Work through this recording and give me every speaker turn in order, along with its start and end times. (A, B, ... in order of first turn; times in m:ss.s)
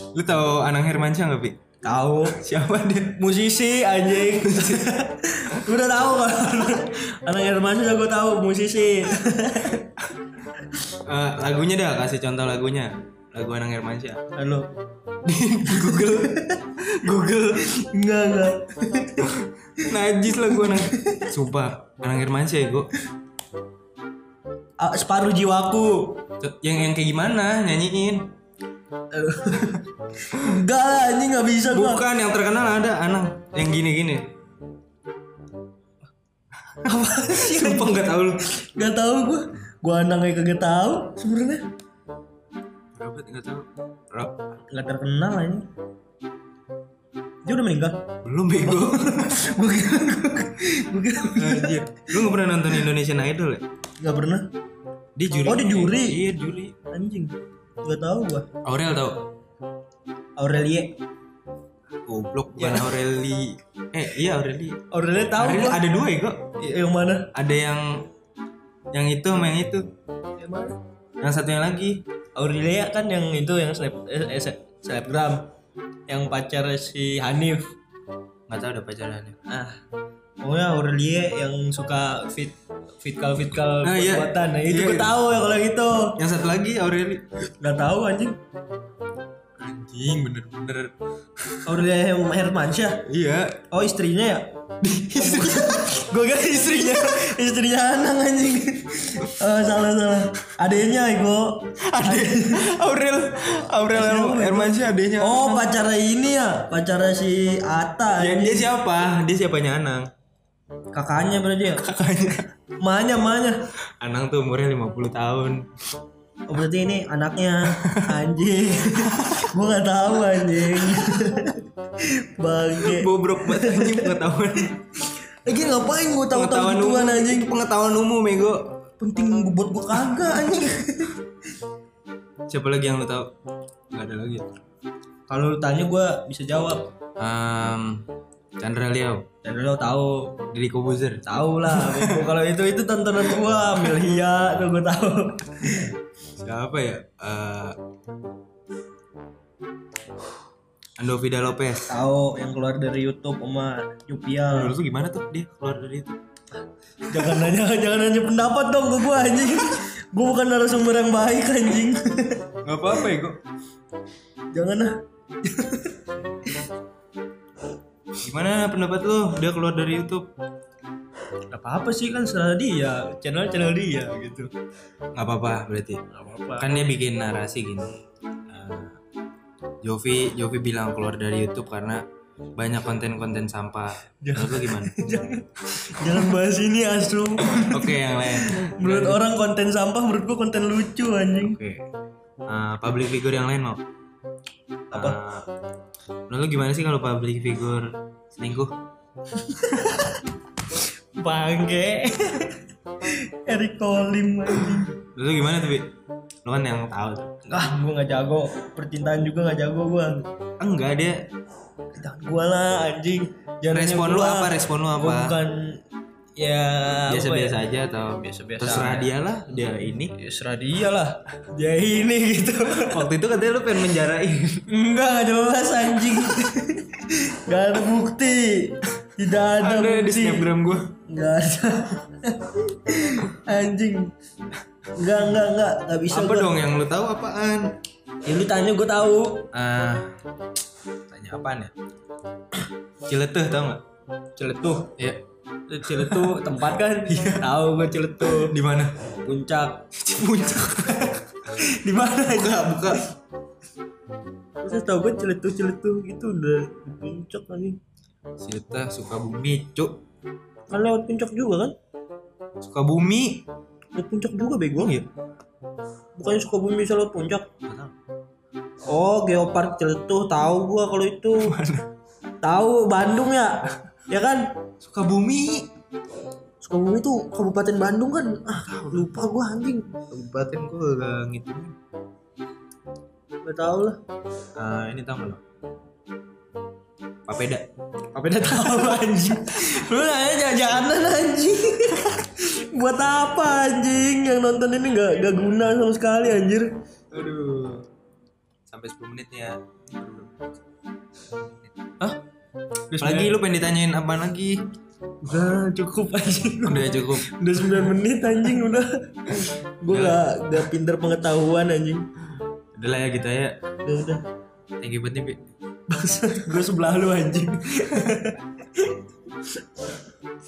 0:00.1-0:01.6 A
0:01.8-0:02.4 B
0:02.4-0:03.2 A
0:03.2-0:09.9 B
0:04.5-0:04.9 A
0:11.1-0:14.2 A
0:14.4-0:14.7 B
0:15.2-0:16.3 A
0:15.8-0:16.6 B
0:16.9-0:17.6 A
0:17.7-0:19.3 B
0:19.9-0:22.9 A
0:24.8-0:26.2 B
0:26.4-0:28.3 A
0:29.1-0:32.0 B
0:31.7-0:34.3 A
0:36.8-0:38.1 B
0:37.3-0:38.4 A
0:38.8-0:41.6 B
0:43.0-0:44.4 A
0:44.7-0:45.7 B
0:47.4-0:48.0 B
0:48.2-0:49.4 A
0:48.9-0:51.8 B
0:51.4-0:53.6 A
0:54.0-0:54.5 B
0:55.2-0:56.8 A
0:55.4-0:56.2 B
0:56.9-0:58.5 B
0:58.6-0:59.2 A
1:00.4-1:01.0 B
1:02.1-1:04.8 A
1:02.6-1:02.9 B
1:04.9-1:05.8 B
1:05.4-1:06.4 A
1:06.6-1:07.3 B
1:07.3-1:07.8 A
1:08.9-1:09.8 A
1:10.4-1:10.8 B
1:11.2-1:12.0 A
1:12.4-1:15.4 B
1:16.1-1:17.6 B
1:18.5-1:19.4 A
1:19.5-1:19.8 B
1:20.4-1:26.1 B
1:23.8-1:25.1 A
1:26.2-1:27.3 A
1:27.6-1:28.4 B
1:29.6-1:30.9 A
1:31.6-1:33.0 B
1:33.1-1:33.6 A
1:33.7-1:34.5 B
1:34.8-1:36.0 A
1:35.1-1:42.6 B
1:41.9-1:45.7 A
1:43.8-1:48.7 B
1:48.2-1:50.1 A
1:50.9-1:51.8 B
1:51.8-1:52.5 A
1:52.8-1:53.6 B
1:54.0-1:55.6 A
1:56.5-2:01.6 B
1:59.1-1:59.4 A
2:02.3-2:04.2 B
2:02.9-2:04.8 A
2:05.4-2:07.5 B
2:06.3-2:08.6 A
2:09.0-2:11.2 B
2:12.5-2:13.3 A
2:13.9-2:14.5 A
2:15.3-2:16.9 B
2:17.2-2:18.0 A
2:18.6-2:19.2 A
2:19.4-2:20.3 B
2:20.5-2:22.2 A
2:21.2-2:25.9 B
2:26.4-2:27.8 A
2:31.0-2:31.9 A
2:31.9-2:34.8 B
2:34.5-2:36.2 A
2:37.1-2:42.4 B
2:42.6-2:43.4 A
2:44.5-2:44.9 B
2:45.5-2:45.9 B
2:48.2-2:50.2 A
2:51.5-2:54.5 B
2:55.2-2:56.0 A
2:56.1-2:56.7 B
2:56.6-2:57.9 A
2:58.5-2:59.0 A
2:59.8-3:02.0 A
3:02.6-3:04.9 A
3:04.2-3:07.9 B
3:07.6-3:09.2 A
3:08.4-3:11.6 B
3:11.4-3:11.8 A
3:12.5-3:13.8 A
3:14.9-3:15.2 B
3:14.9-3:15.4 A
3:16.3-3:18.7 A
3:19.5-3:20.1 B
3:21.2-3:22.6 B
3:23.4-3:24.9 B
3:25.2-3:25.9 A
3:26.4-3:27.3 A
3:27.5-3:30.2 B
3:30.6-3:31.2 A
3:31.9-3:35.8 B
3:33.7-3:35.4 A
3:36.4-3:37.6 B
3:37.1-3:40.1 A
3:38.2-3:39.1 B
3:40.2-3:43.0 B
3:42.8-3:44.6 A
3:44.7-3:50.5 B
3:49.6-3:50.9 A
3:51.1-3:54.1 B
3:55.0-3:56.6 B
3:56.1-3:57.8 A
3:58.2-3:59.5 B
3:59.5-4:00.1 A
4:01.1-4:01.7 A
4:03.1-4:03.8 A
4:04.4-4:04.9 B
4:05.7-4:08.5 B
4:06.0-4:06.3 A
4:07.1-4:07.5 A
4:08.3-4:08.9 A
4:09.2-4:09.9 B
4:10.1-4:11.2 A
4:11.6-4:12.9 B
4:12.3-4:13.1 A
4:14.6-4:17.8 B
4:18.4-4:20.0 A
4:20.7-4:21.8 B
4:22.6-4:23.4 A
4:24.0-4:24.9 B
4:24.8-4:25.1 A
4:26.2-4:27.5 B
4:27.7-4:27.9 A
4:28.9-4:31.5 B
4:31.4-4:31.9 A
4:32.4-4:33.6 B
4:34.1-4:34.4 B
4:34.8-4:35.7 A
4:36.6-4:39.9 B
4:38.7-4:39.1 A
4:40.1-4:41.7 A
4:43.4-4:44.0 B
4:44.6-4:45.4 A
4:47.3-4:47.7 A
4:48.2-4:56.7 B
4:57.1-4:57.8 A
4:58.7-5:00.3 A
5:02.9-5:03.4 B
5:03.0-5:04.6 A
5:05.2-5:08.9 B
5:06.7-5:07.3 A
5:09.4-5:12.0 B
5:09.9-5:10.2 A
5:12.7-5:13.6 A
5:13.8-5:14.2 B
5:14.8-5:15.5 A
5:15.9-5:18.8 B